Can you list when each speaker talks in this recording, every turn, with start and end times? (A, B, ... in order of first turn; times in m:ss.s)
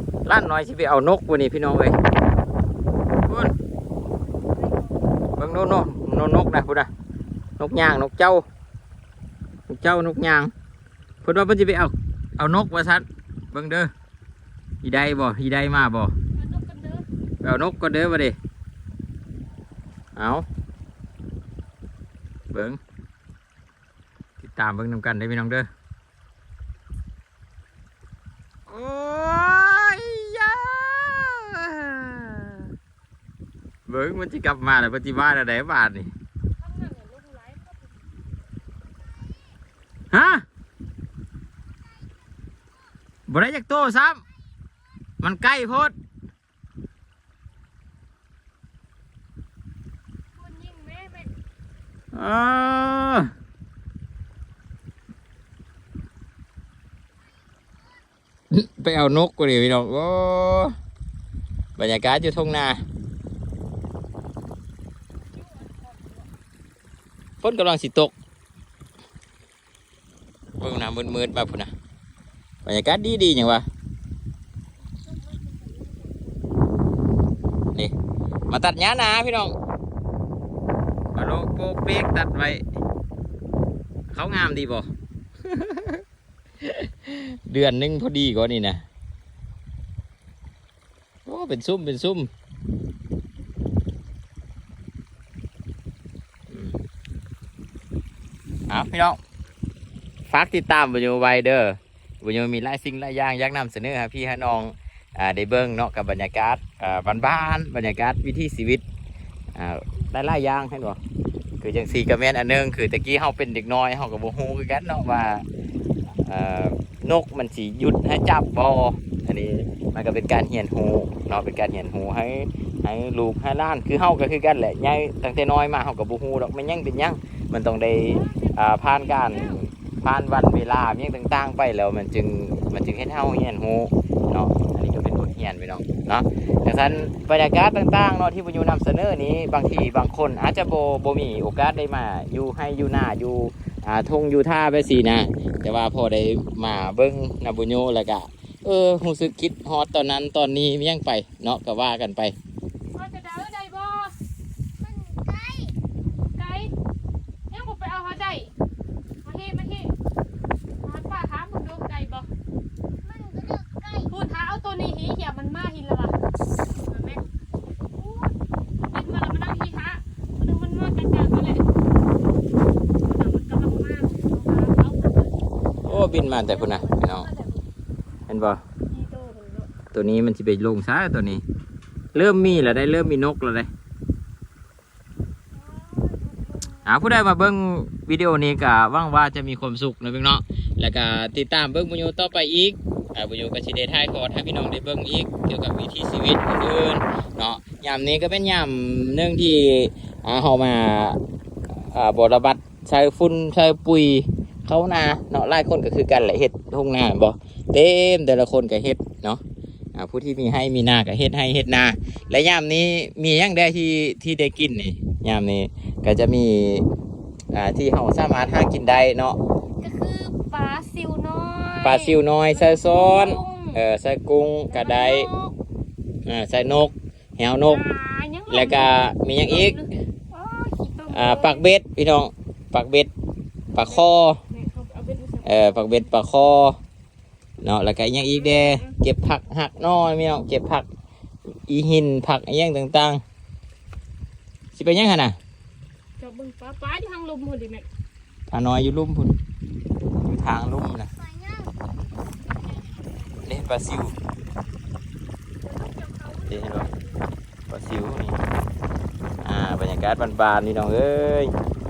0:00.2-0:02.0 A
0:03.3-0:03.5 A
0:04.3-0:05.0 B
0:05.4-0:06.9 A
0:07.6-0:08.4 A
0:09.7-0:10.5 A
0:11.2-0:13.9 A
0:14.8-0:16.1 A
0:16.3-0:17.0 B
0:17.4-0:18.4 A
0:20.2-0:20.4 A
0:22.5-0:22.8 A
0:24.4-0:25.7 A
0:28.7-0:32.7 A
0:33.9-0:36.1 A
0:36.6-0:38.0 B
0:40.1-0:40.4 A
0:43.3-0:44.2 A
0:45.2-0:45.9 A
0:50.4-0:51.3 B
0:52.1-0:53.3 A
0:58.5-1:00.7 A
1:01.8-1:02.8 A
1:05.3-1:06.2 B
1:07.4-1:08.1 A
1:10.6-1:11.7 A
1:12.6-1:13.6 A
1:15.0-1:16.3 B
1:18.5-1:19.5 A
1:21.1-1:22.6 A
1:24.1-1:24.9 A
1:25.5-1:26.0 A
1:26.6-1:28.8 A
1:31.2-1:32.3 A
1:36.5-1:36.8 A
1:38.7-1:39.2 A
1:40.3-1:48.8 A
1:49.5-1:51.0 A
1:51.6-1:55.4 A
1:56.2-2:32.3 A
2:08.0-2:09.6 B
2:32.9-2:34.1 B
2:34.8-2:35.7 C
2:36.2-2:36.7 B
2:37.5-2:38.5 B
2:39.2-2:39.9 B
2:40.8-2:42.3 B
2:43.0-2:44.1 C
2:44.1-2:46.2 B
2:46.8-2:47.3 B
2:47.9-2:48.4 B
2:48.9-2:51.7 B
2:53.0-2:57.6 B
2:55.8-2:57.3 A
2:58.3-2:58.6 A
2:58.9-2:59.7 B
2:59.9-3:01.4 A
3:02.1-3:03.7 A
3:05.5-3:07.0 B
3:06.8-3:21.2 A
3:21.7-3:29.4 A
3:29.9-3:36.8 A
3:37.5-3:39.4 A
3:39.8-3:43.8 B
3:41.8-3:45.3 A
3:44.7-3:45.6 B
3:46.2-3:47.8 A
3:47.6-3:51.6 B
3:48.5-3:49.8 A
3:51.1-3:53.1 A
3:53.7-3:54.4 A
3:53.9-3:55.9 B
3:55.4-3:56.8 A
3:57.6-4:00.8 A
3:58.1-3:58.9 B
4:01.7-4:03.2 A
4:04.7-4:05.4 A
4:06.2-4:07.9 B
4:08.5-4:09.3 A
4:10.2-4:11.1 A
4:11.2-4:11.7 C
4:12.5-4:13.7 B
4:13.4-4:14.1 A
4:15.6-4:17.3 B
4:16.5-4:16.9 A
4:17.7-4:18.4 A
4:19.4-4:21.5 A